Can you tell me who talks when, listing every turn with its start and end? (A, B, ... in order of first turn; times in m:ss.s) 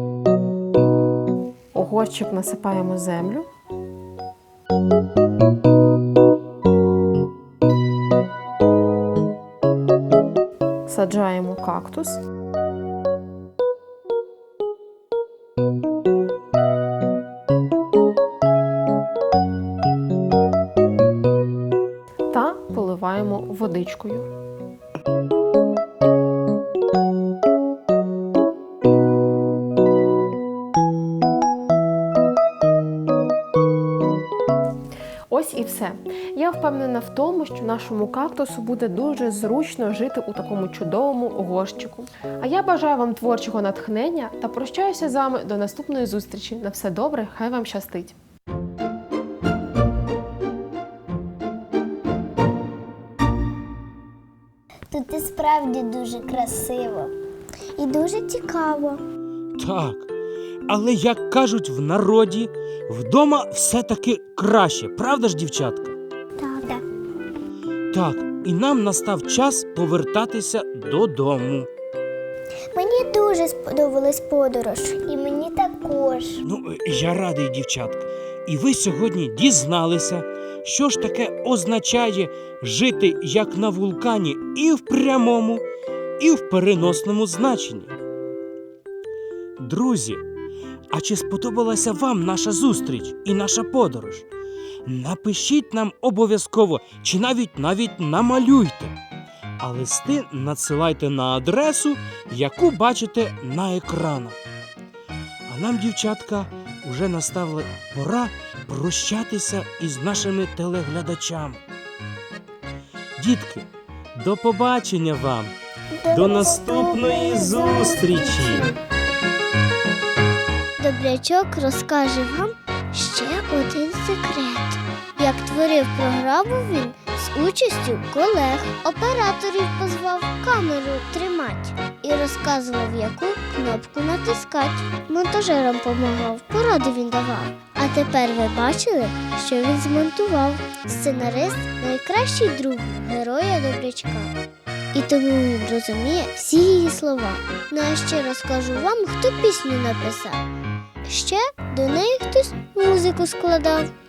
0:01.7-0:03.4 A
0:10.8-0:12.2 A
0:22.3-0:24.3 A
0:35.3-0:48.2 A
0:54.9-0:57.1 B
0:57.8-0:59.0 B
0:59.6-1:00.1 C
1:00.7-1:06.0 C
1:06.4-1:06.8 B
1:07.9-1:11.7 C
1:12.7-1:16.4 B
1:16.4-1:25.6 C
1:26.2-1:27.9 C
1:29.6-1:30.2 C
1:30.9-1:34.2 C
1:34.8-1:39.0 C
1:39.6-1:44.4 C
1:45.5-1:51.6 C
1:53.2-1:55.5 C
1:56.0-1:58.7 B
1:56.1-1:58.7 C
2:00.8-2:24.3 D
2:24.9-2:30.4 D
2:31.0-2:33.9 D